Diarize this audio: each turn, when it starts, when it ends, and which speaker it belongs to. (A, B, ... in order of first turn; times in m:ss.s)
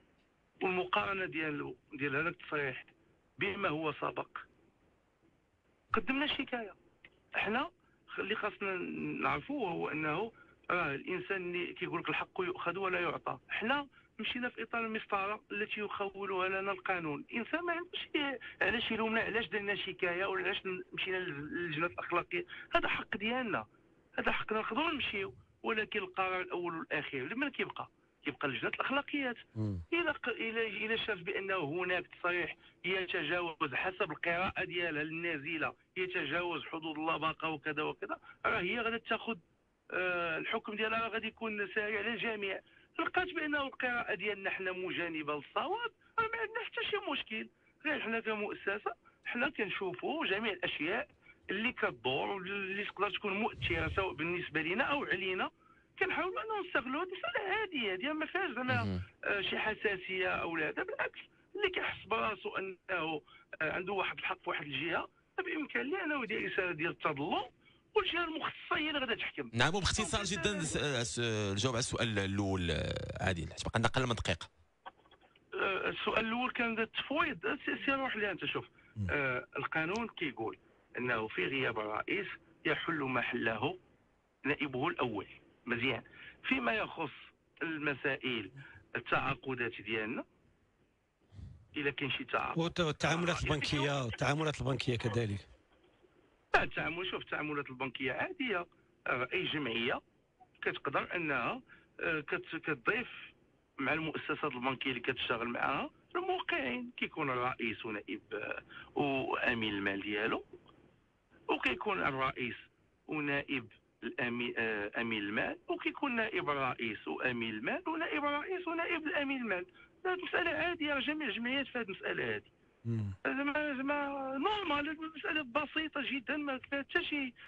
0:00.6-0:04.4 A
0:05.9-0:06.8 A
0:07.4-0:23.6 A
0:24.2-0:29.4 A
0:29.6-0:29.8 B
0:29.9-1:10.8 A
0:58.7-0:59.0 C
1:09.5-1:14.5 C
1:15.5-1:23.8 A
1:24.4-1:30.2 A
1:31.8-1:34.0 A
1:32.6-1:35.5 B
1:36.5-1:40.0 A
1:40.6-1:43.3 A
1:43.8-1:50.4 A
1:51.5-2:02.5 A
2:02.8-2:03.2 B
2:03.2-2:07.3 A